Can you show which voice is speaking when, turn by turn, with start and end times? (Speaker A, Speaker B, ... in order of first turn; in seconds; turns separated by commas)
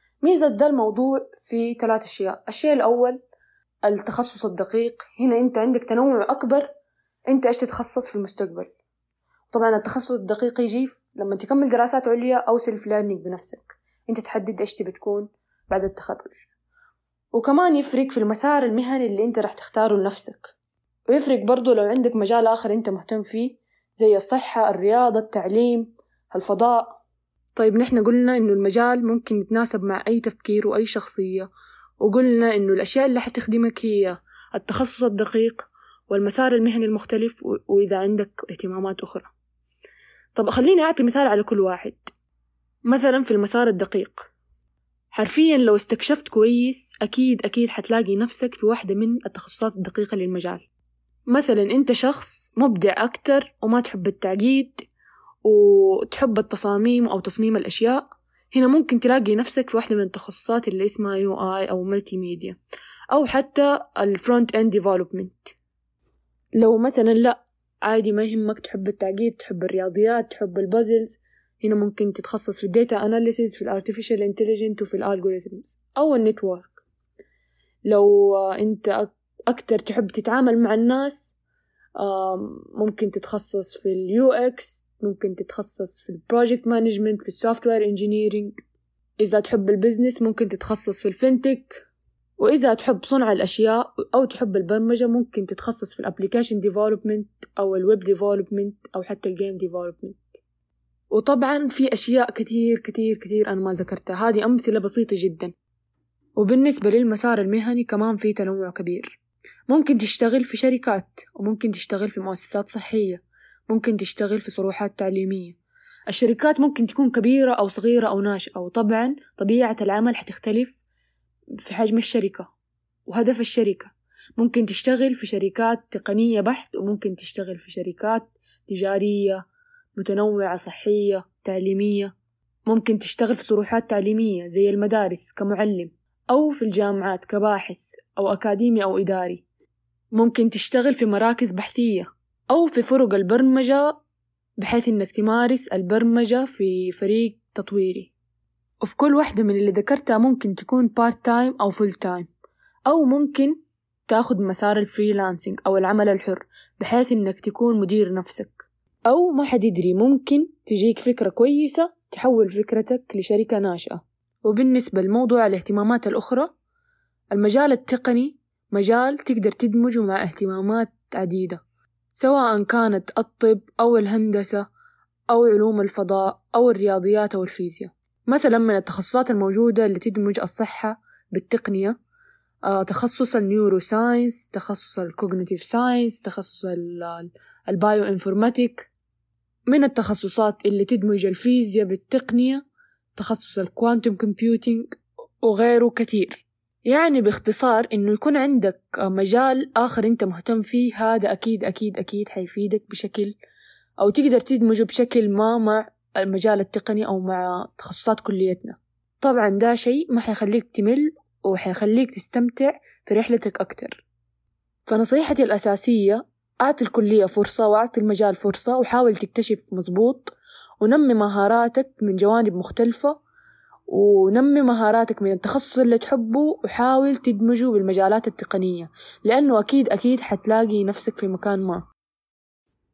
Speaker A: 0.2-3.2, Speaker A: 3.9-6.7, Speaker A: 7.3-8.7, Speaker A: 9.5-16.5, Speaker A: 17.3-20.5, Speaker A: 21.1-27.0, Speaker A: 27.6-31.5, Speaker A: 32.0-39.3, Speaker A: 40.4-42.1, Speaker A: 42.9-44.3, Speaker A: 45.1-50.7, Speaker A: 51.3-54.9, Speaker A: 55.4-62.6, Speaker A: 63.1-65.5, Speaker A: 66.6-76.8, Speaker A: 77.9-81.3, Speaker A: 82.0-88.6, Speaker A: 89.2-91.8, Speaker A: 92.4-100.3, Speaker A: 101.1-105.5, Speaker A: 106.4-109.2, Speaker A: 109.7-115.6, Speaker A: 116.1-120.8, Speaker A: 121.6-122.5, Speaker A: 123.1-129.4, Speaker A: 130.0-132.1, Speaker A: 132.7-139.4, Speaker A: 140.2-144.0, Speaker A: 144.6-148.1, Speaker A: 148.8-152.3, Speaker A: 152.9-153.6, Speaker A: 154.1-166.5, Speaker A: 167.3-171.6, Speaker A: 172.1-174.7, Speaker A: 175.3-182.0, Speaker A: 182.7-188.9, Speaker A: 189.7-192.6, Speaker A: 193.2-203.3, Speaker A: 204.0-214.0, Speaker A: 214.9-223.2, Speaker A: 223.9-231.9